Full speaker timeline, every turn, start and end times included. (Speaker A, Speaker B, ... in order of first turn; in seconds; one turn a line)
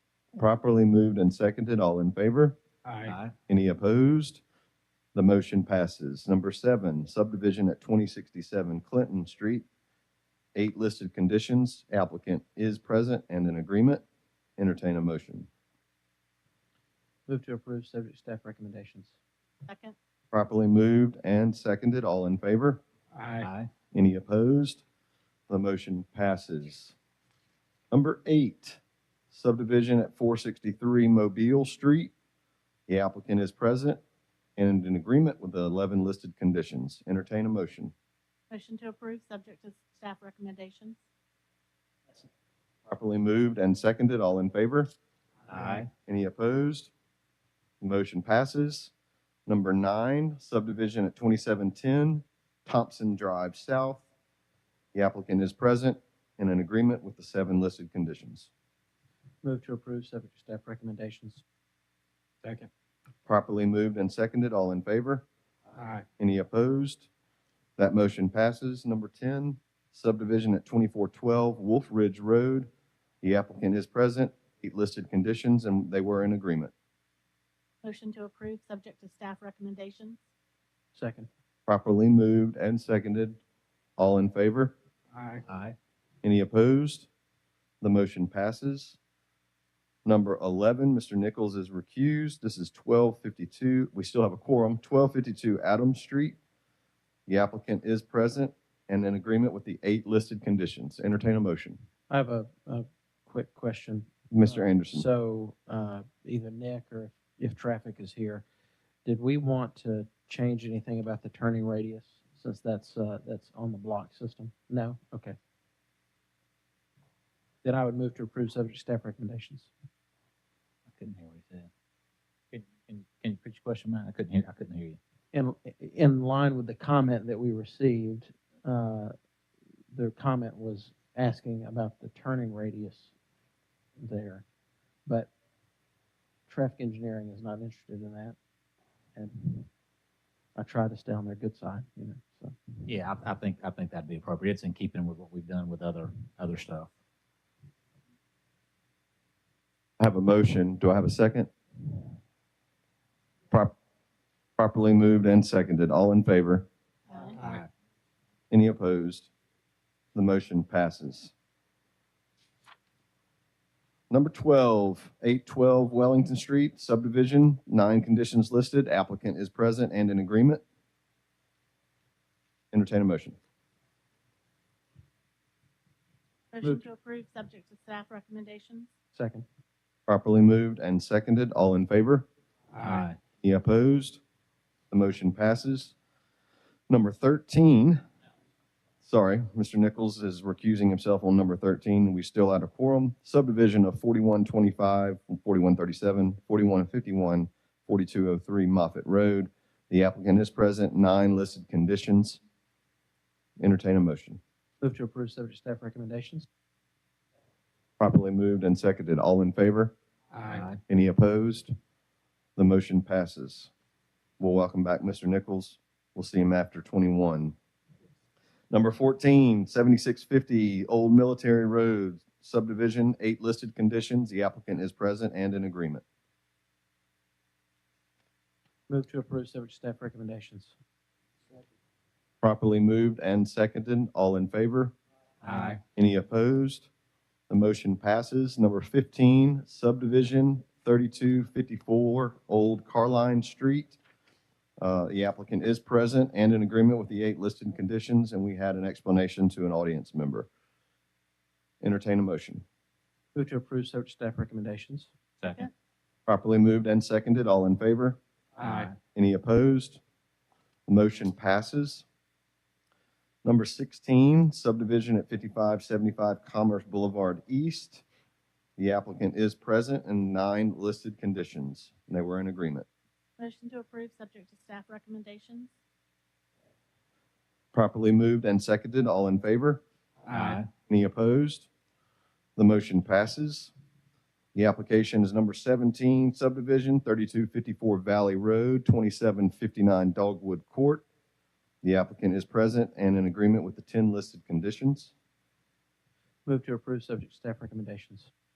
Speaker A: 0.3-2.6
Speaker B: 2.9-3.2
Speaker C: 3.1-3.3
Speaker A: 3.5-4.4
Speaker A: 5.1-9.7
Speaker A: 10.6-14.0
Speaker A: 14.6-15.5
Speaker D: 17.3-19.1
Speaker E: 19.7-19.9
Speaker A: 20.3-22.8
Speaker B: 23.1-23.5
Speaker C: 23.4-23.7
Speaker A: 23.9-24.8
Speaker A: 25.5-27.0
Speaker A: 27.9-28.8
Speaker A: 29.3-32.1
Speaker A: 32.9-34.0
Speaker A: 34.6-37.9
Speaker E: 38.5-41.0
Speaker A: 42.9-44.9
Speaker C: 45.5-45.9
Speaker A: 46.1-46.9
Speaker A: 47.8-48.9
Speaker A: 49.5-54.0
Speaker A: 54.9-58.5
Speaker D: 59.4-61.4
Speaker B: 62.4-62.7
Speaker A: 63.3-65.3
Speaker B: 65.8-66.0
Speaker A: 66.2-67.1
Speaker A: 67.8-72.7
Speaker A: 73.2-76.7
Speaker E: 77.8-80.2
Speaker D: 81.0-81.3
Speaker A: 81.7-83.4
Speaker A: 84.0-84.8
Speaker B: 85.1-85.5
Speaker C: 85.5-85.8
Speaker A: 86.2-87.1
Speaker A: 87.8-89.0
Speaker A: 90.0-96.4
Speaker A: 97.3-101.8
Speaker D: 102.1-108.4
Speaker A: 104.3-105.1
Speaker D: 109.0-115.3
Speaker D: 117.6-119.7
Speaker C: 120.9-121.7
Speaker C: 122.5-125.0
Speaker D: 125.3-129.1
Speaker D: 129.9-133.1
Speaker D: 134.0-134.4
Speaker D: 136.5-138.4
Speaker D: 139.2-139.7
Speaker D: 140.6-142.6
Speaker C: 142.9-146.9
Speaker A: 150.0-152.0
Speaker A: 154.6-156.7
Speaker B: 157.4-157.6
Speaker A: 158.5-159.3
Speaker A: 160.1-161.3
Speaker A: 164.1-170.6
Speaker A: 172.7-173.4
Speaker E: 176.5-178.9
Speaker D: 179.2-179.5
Speaker A: 180.1-182.3
Speaker C: 182.8-183.2
Speaker A: 183.4-184.2
Speaker A: 184.9-185.9
Speaker A: 186.9-188.0
Speaker A: 189.0-202.4
Speaker A: 203.6-204.4
Speaker D: 204.8-206.5
Speaker A: 208.0-209.9
Speaker B: 210.3-210.7
Speaker C: 210.5-210.8
Speaker A: 210.9-211.7
Speaker A: 212.6-213.7
Speaker A: 214.4-217.6
Speaker A: 218.7-226.0
Speaker D: 228.9-230.7
Speaker A: 232.4-234.9
Speaker C: 235.4-235.8
Speaker B: 235.5-235.8
Speaker A: 236.0-236.9
Speaker A: 237.5-244.0
Speaker A: 244.8-250.5
Speaker A: 251.8-252.6
Speaker D: 253.3-255.1
Speaker C: 255.4-255.7
Speaker A: 256.3-258.2
Speaker B: 258.6-258.9
Speaker C: 258.6-258.9
Speaker A: 259.1-260.0
Speaker A: 260.9-262.1
Speaker A: 263.4-268.0
Speaker A: 268.8-272.9
Speaker E: 273.4-275.7
Speaker A: 277.7-279.8
Speaker B: 280.3-280.6
Speaker C: 280.3-280.7
Speaker A: 280.9-281.7
Speaker A: 282.6-283.7
Speaker A: 284.6-291.1
Speaker A: 291.8-295.1
Speaker D: 296.5-298.3